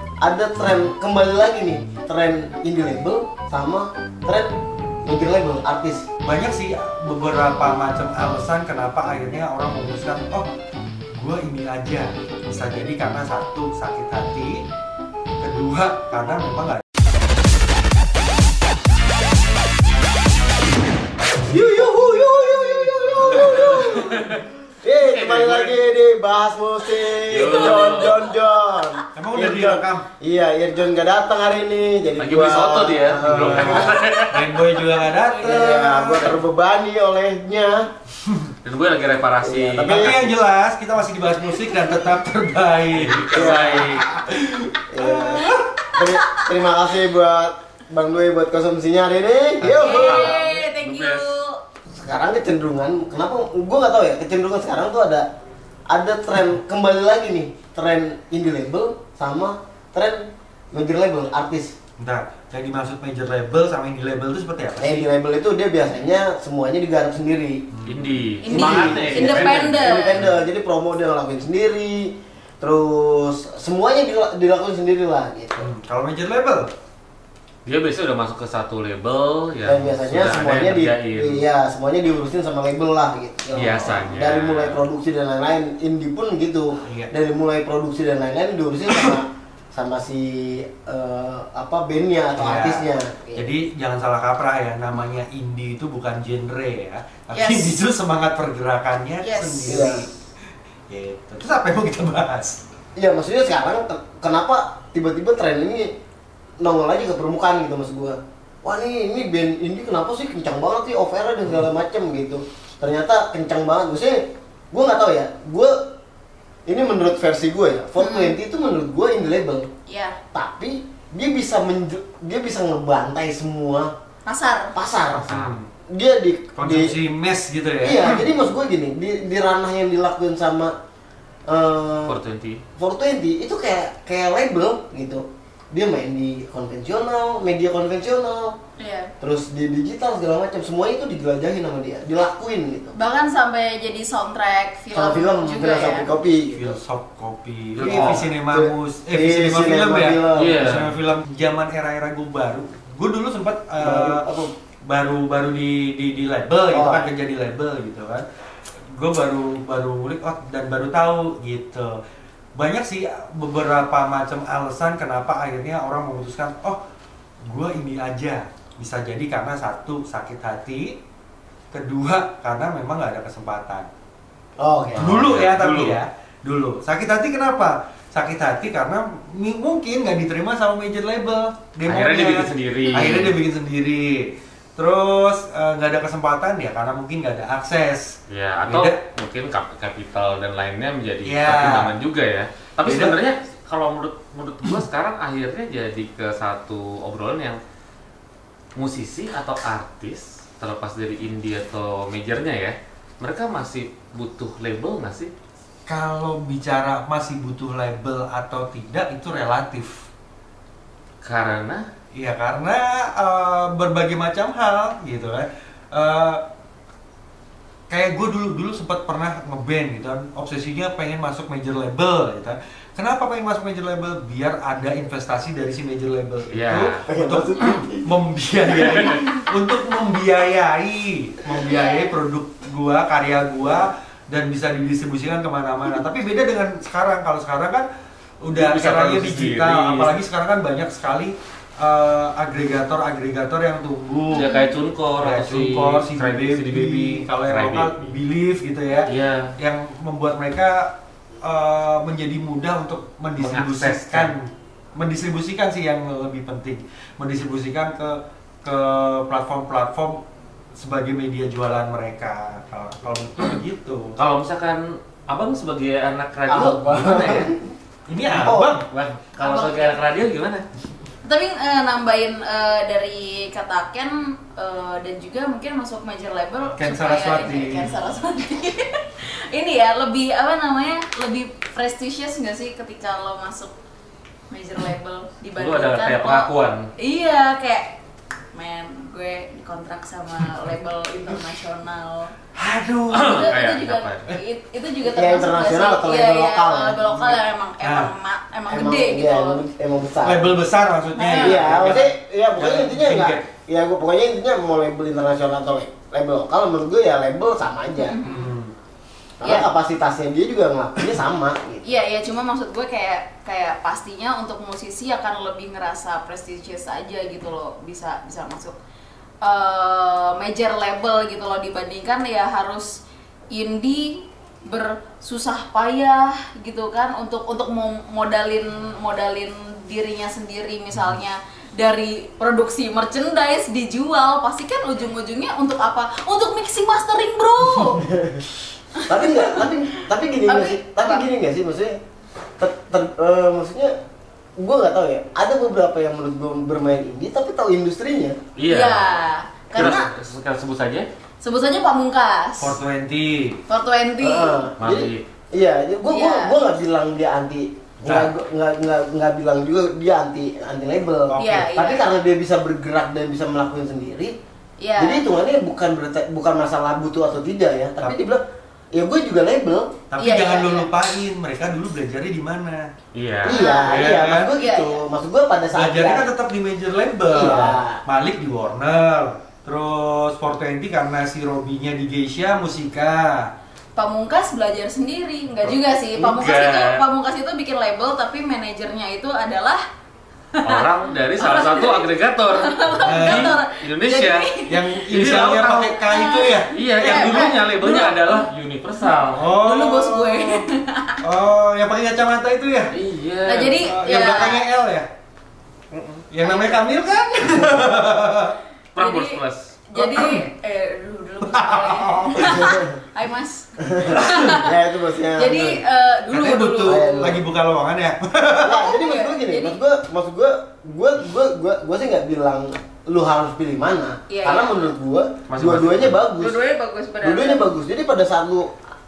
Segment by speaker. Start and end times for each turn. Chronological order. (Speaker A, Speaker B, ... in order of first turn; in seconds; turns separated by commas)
Speaker A: 0.2-4.5, Speaker A: 5.0-6.0, Speaker B: 6.2-10.5, Speaker B: 11.2-14.6, Speaker B: 15.4-16.8, Speaker A: 21.4-34.0, Speaker B: 23.0-24.3, Speaker C: 23.5-24.4, Speaker C: 25.0-25.8, Speaker C: 27.2-28.1, Speaker B: 29.1-30.1, Speaker C: 32.2-34.5, Speaker B: 33.2-36.3, Speaker D: 34.9-35.9, Speaker A: 35.4-37.8, Speaker B: 38.2-38.5, Speaker C: 38.6-40.2, Speaker A: 39.4-40.3, Speaker B: 39.8-45.6, Speaker C: 42.9-44.0, Speaker A: 43.3-44.0, Speaker A: 44.9-50.3, Speaker D: 45.9-46.5, Speaker B: 49.6-50.6, Speaker D: 49.8-51.6, Speaker C: 50.2-51.3, Speaker A: 51.9-55.2, Speaker A: 55.9-61.7, Speaker B: 62.0-65.1, Speaker A: 64.8-67.6, Speaker B: 67.7-69.8, Speaker C: 67.8-69.1, Speaker D: 68.4-70.2, Speaker A: 68.5-75.7, Speaker B: 75.6-76.7, Speaker C: 77.6-81.4, Speaker A: 79.6-93.5, Speaker C: 83.5-84.8, Speaker B: 83.8-84.0, Speaker B: 86.8-87.1, Speaker B: 92.4-100.1, Speaker D: 97.3-97.7, Speaker D: 99.2-99.9, Speaker A: 99.7-100.0, Speaker B: 100.9-102.6, Speaker A: 103.0-105.9, Speaker A: 106.6-115.7, Speaker A: 116.7-119.7, Speaker D: 118.0-118.3, Speaker D: 119.9-120.2, Speaker A: 120.3-123.9, Speaker D: 124.2-124.7, Speaker A: 124.7-125.3, Speaker C: 125.3-125.6, Speaker B: 125.3-125.7, Speaker A: 125.9-126.9, Speaker B: 126.5-128.2, Speaker A: 127.8-130.7, Speaker A: 131.5-132.2, Speaker C: 132.1-132.6, Speaker A: 132.8-138.6, Speaker D: 138.8-139.1, Speaker A: 139.2-142.9, Speaker D: 142.9-146.1, Speaker A: 144.9-146.8, Speaker B: 146.5-154.2, Speaker C: 147.8-148.2, Speaker A: 147.8-150.6, Speaker C: 150.3-150.9, Speaker A: 153.8-154.5, Speaker B: 154.8-158.2, Speaker A: 156.7-157.1, Speaker B: 158.9-161.9, Speaker B: 162.6-166.8, Speaker B: 167.5-171.0, Speaker B: 171.7-173.9, Speaker A: 174.6-175.1, Speaker C: 174.9-176.0, Speaker B: 174.9-188.1, Speaker C: 181.8-183.4, Speaker C: 188.3-197.6, Speaker B: 188.7-189.0, Speaker B: 191.2-191.9, Speaker B: 192.8-193.2, Speaker C: 198.8-205.3, Speaker B: 205.9-210.1, Speaker C: 211.2-211.8, Speaker B: 212.1-216.4, Speaker B: 217.9-237.8, Speaker C: 226.5-227.0, Speaker A: 227.1-228.1, Speaker C: 228.8-229.2, Speaker D: 231.7-232.1, Speaker B: 238.4-244.5, Speaker C: 238.5-240.1, Speaker C: 244.3-247.9, Speaker D: 244.4-244.6, Speaker B: 245.2-260.2, Speaker C: 249.1-249.5, Speaker C: 253.4-254.3, Speaker B: 260.7-264.2, Speaker C: 264.2-267.5, Speaker A: 266.5-267.6, Speaker B: 268.1-268.8, Speaker A: 268.4-268.8, Speaker C: 268.9-270.6, Speaker D: 269.4-269.9, Speaker D: 271.2-283.7, Speaker B: 276.8-278.0, Speaker D: 284.5-286.5, Speaker C: 285.6-286.9, Speaker D: 287.0-287.9, Speaker D: 288.5-292.3, Speaker B: 292.5-293.5, Speaker C: 293.1-294.3, Speaker D: 293.2-299.6, Speaker A: 295.1-297.4, Speaker B: 297.8-298.1, Speaker A: 298.7-300.5, Speaker B: 300.2-303.4, Speaker D: 301.1-301.6, Speaker A: 301.3-308.1, Speaker D: 308.0-308.5, Speaker B: 308.2-308.7, Speaker A: 309.4-311.9, Speaker D: 311.8-318.8, Speaker D: 319.4-338.1, Speaker A: 337.9-338.4, Speaker D: 338.9-339.7, Speaker A: 339.1-342.0, Speaker D: 340.5-341.2, Speaker A: 342.6-343.9, Speaker A: 344.6-348.4, Speaker C: 348.6-349.1, Speaker D: 348.7-350.1, Speaker C: 349.7-351.1, Speaker D: 351.4-352.7, Speaker B: 352.6-353.6, Speaker D: 353.7-354.6, Speaker A: 354.2-364.3, Speaker C: 354.8-355.2, Speaker D: 356.1-356.5, Speaker B: 358.0-358.3, Speaker B: 361.3-361.7, Speaker D: 361.4-362.1, Speaker D: 364.8-365.2, Speaker A: 365.0-368.4, Speaker A: 368.9-369.9, Speaker B: 370.1-372.9, Speaker D: 370.2-370.9, Speaker C: 373.1-373.6, Speaker A: 373.5-376.3, Speaker D: 373.5-375.0, Speaker B: 373.7-374.5, Speaker B: 375.7-383.5, Speaker A: 377.3-378.0, Speaker D: 383.9-389.8, Speaker C: 385.6-386.9, Speaker D: 390.6-395.0, Speaker C: 390.6-394.5, Speaker B: 393.0-393.6, Speaker B: 394.6-397.5, Speaker C: 395.1-395.9, Speaker D: 395.6-398.4, Speaker C: 396.7-399.5, Speaker D: 399.1-401.2, Speaker B: 399.4-400.6, Speaker B: 401.2-402.9, Speaker C: 402.9-403.9, Speaker D: 403.4-404.6, Speaker B: 403.8-405.1, Speaker C: 405.9-406.2, Speaker B: 406.3-408.6, Speaker D: 406.4-406.8, Speaker D: 407.5-407.9, Speaker C: 408.9-409.7, Speaker D: 408.9-414.8, Speaker B: 409.9-410.4, Speaker B: 411.4-412.7, Speaker A: 412.4-412.9, Speaker A: 413.9-415.8, Speaker D: 415.3-417.1, Speaker B: 416.3-418.9, Speaker A: 416.8-417.4, Speaker A: 418.6-426.6, Speaker D: 418.8-419.8, Speaker D: 424.3-424.9, Speaker C: 425.5-426.1, Speaker D: 426.3-427.6, Speaker A: 427.2-428.7